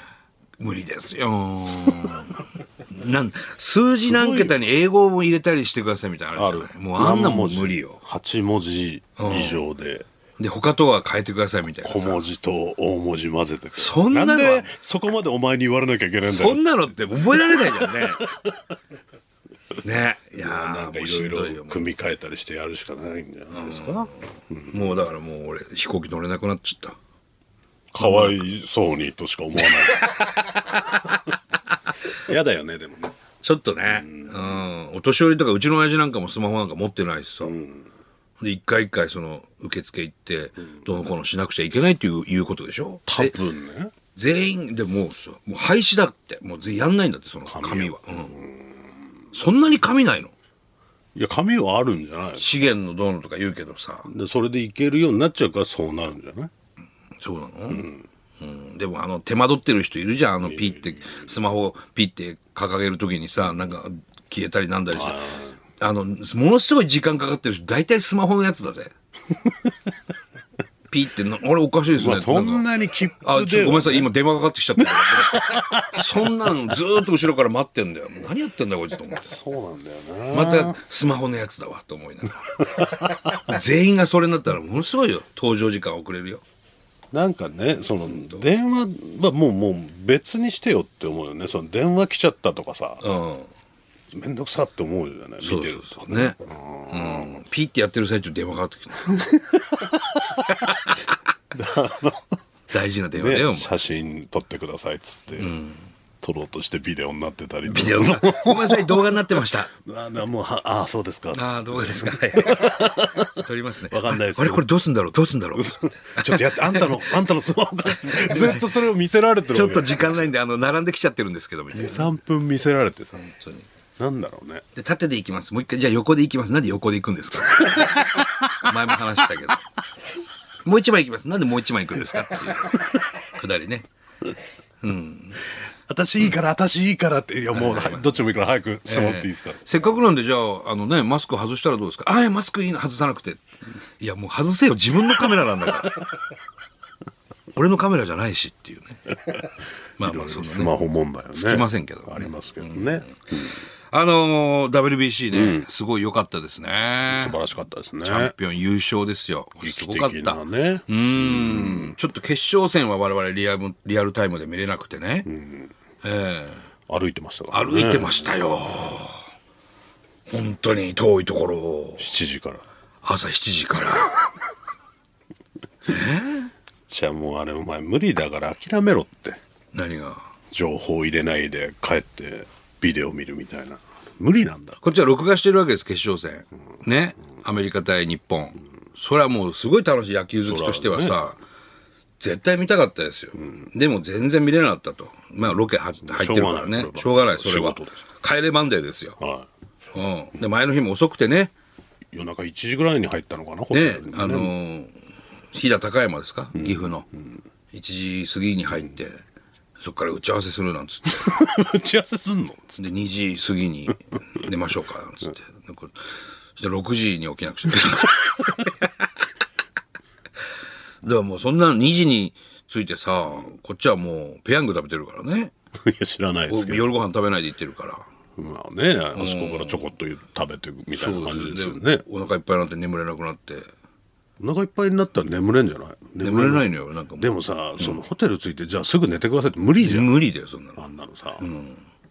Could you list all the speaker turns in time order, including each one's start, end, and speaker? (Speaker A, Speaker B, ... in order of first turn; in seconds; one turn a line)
Speaker A: 0.6-8.0
Speaker B: 4.1-4.5
Speaker B: 6.4-10.1
Speaker A: 9.2-9.6
Speaker A: 10.4-12.3
Speaker B: 11.8-16.8
Speaker A: 13.8-14.7
Speaker A: 16.2-18.2
Speaker B: 17.3-18.5
Speaker A: 19.8-21.9
Speaker B: 20.4-25.0
Speaker A: 23.5-27.0
Speaker B: 27.9-30.2
Speaker A: 28.0-28.4
Speaker A: 29.9-30.6
Speaker B: 32.2-33.1
Speaker A: 33.4-37.5
Speaker B: 33.9-34.6
Speaker B: 37.4-37.9
Speaker A: 38.4-43.4
Speaker B: 43.1-43.9
Speaker A: 44.1-48.4
Speaker B: 47.4-48.7
Speaker A: 49.3-50.3
Speaker B: 51.1-52.6
Speaker A: 52.4-54.1
Speaker B: 54.1-56.5
Speaker A: 57.2-57.9
Speaker B: 57.7-58.0
Speaker A: 58.4-65.2
Speaker B: 60.4-61.3
Speaker B: 64.9-65.6
Speaker A: 65.8-68.9
Speaker A: 70.9-72.7
Speaker B: 71.9-74.1
Speaker A: 73.2-79.3
Speaker B: 74.8-76.2
Speaker B: 79.2-80.8
Speaker A: 80.3-86.4
Speaker B: 87.1-93.0
Speaker A: 88.0-88.4
Speaker A: 93.0-93.5
Speaker B: 94.1-97.4
Speaker A: 95.4-96.4
Speaker A: 96.9-99.2
Speaker B: 99.1-100.5
Speaker A: 100.5-101.1
Speaker B: 101.5-102.3
Speaker A: 102.7-103.8
Speaker B: 103.2-105.6
Speaker A: 105.4-105.9
Speaker B: 106.2-114.7
Speaker A: 107.7-109.7
Speaker A: 111.3-117.0
Speaker B: 115.5-120.3
Speaker A: 117.9-118.8
Speaker A: 119.5-122.1
Speaker B: 121.7-123.3
Speaker A: 123.2-123.7
Speaker B: 124.0-124.6
Speaker A: 124.8-129.6
Speaker B: 127.7-128.4
Speaker A: 130.6-133.9
Speaker A: 134.8-135.4
Speaker B: 135.9-139.6
Speaker A: 137.5-138.1
Speaker A: 138.9-143.4
Speaker A: 144.0-146.1
Speaker A: 147.5-149.2
Speaker A: 150.0-150.7
Speaker B: 150.0-153.6
Speaker A: 151.3-157.4
Speaker B: 155.3-155.7
Speaker B: 157.1-158.3
Speaker A: 158.0-165.3
Speaker B: 159.6-161.9
Speaker B: 165.3-165.7
Speaker A: 166.0-166.7
Speaker B: 166.9-168.4
Speaker A: 167.5-169.3
Speaker A: 170.3-172.1
Speaker B: 172.0-172.7
Speaker A: 173.0-174.3
Speaker A: 175.8-176.5
Speaker B: 176.9-179.4
Speaker A: 179.7-180.3
Speaker B: 180.5-184.8
Speaker A: 184.8-191.4
Speaker B: 190.4-191.2
Speaker A: 192.2-199.2
Speaker B: 196.1-198.0
Speaker B: 199.2-199.5
Speaker A: 199.9-201.5
Speaker B: 202.1-204.5
Speaker A: 203.7-204.9
Speaker A: 205.5-207.1
Speaker B: 206.5-207.3
Speaker A: 207.7-209.2
Speaker A: 209.8-211.3
Speaker B: 211.1-212.9
Speaker A: 212.8-218.9
Speaker A: 221.0-225.5
Speaker B: 225.8-226.9
Speaker A: 226.5-228.1
Speaker B: 228.4-232.1
Speaker A: 229.2-229.9
Speaker A: 230.9-233.7
Speaker B: 234.4-240.1
Speaker A: 236.2-237.3
Speaker A: 239.8-240.8
Speaker B: 240.8-241.4
Speaker A: 241.4-241.8